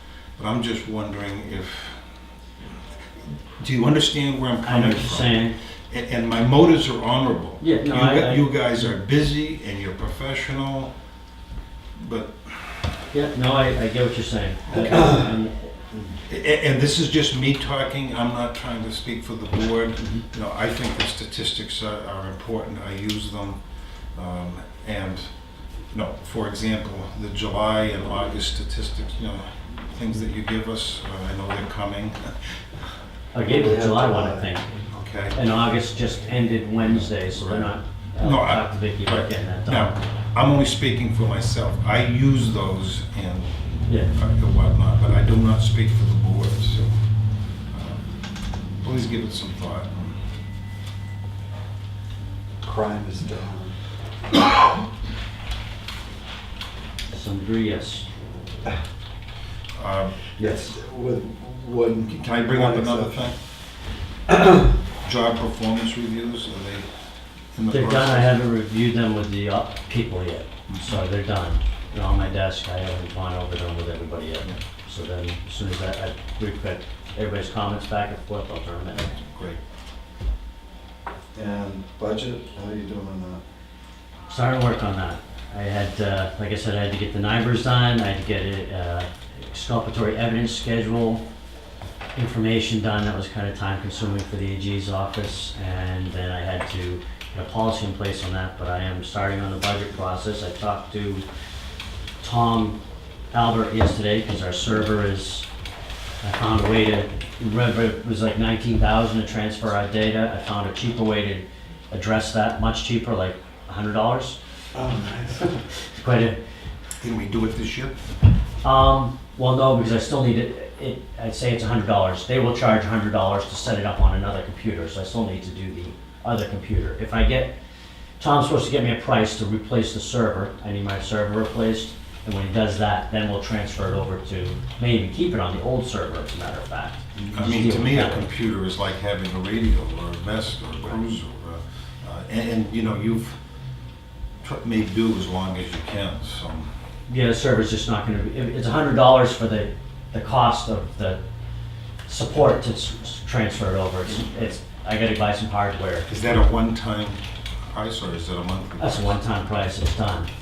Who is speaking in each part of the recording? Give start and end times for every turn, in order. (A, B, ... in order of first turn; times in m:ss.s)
0:00.4-0:02.1 A
0:03.6-0:10.9 A
0:04.6-0:05.6 B
0:07.6-0:08.9 B
0:12.0-0:13.0 A
0:13.1-0:15.7 B
0:14.7-0:15.0 A
0:14.9-0:15.2 C
0:16.2-0:25.3 A
0:20.0-0:20.2 B
0:25.9-0:32.6 A
0:33.3-0:34.7 B
0:33.4-0:34.5 C
0:34.9-0:35.4 A
0:35.3-0:40.0 B
0:36.8-0:47.1 A
0:43.9-0:44.1 B
0:47.7-0:48.1 A
0:48.8-0:50.2 A
0:52.6-0:53.8 C
0:57.1-0:58.1 B
0:59.8-1:00.2 A
1:00.4-1:00.7 B
1:00.4-1:03.2 C
1:02.1-1:03.4 A
1:05.0-1:06.9 A
1:07.5-1:08.4 A
1:07.7-1:19.1 B
1:10.7-1:11.0 A
1:19.0-1:19.6 A
1:21.3-1:23.4 C
1:24.3-1:31.2 B
1:32.2-1:41.3 B
1:42.2-1:42.8 B
1:43.3-1:45.5 B
1:46.2-1:54.4 B
1:54.7-1:55.6 C
1:55.9-1:56.4 B
1:57.0-1:58.0 A
1:58.6-2:07.5 B
2:08.2-2:18.3 B
2:17.3-2:23.4 A
2:24.4-2:26.7 A
2:27.1-2:31.2 B
2:32.1-2:36.1 B
2:36.1-2:39.2 A
2:38.8-2:40.3 B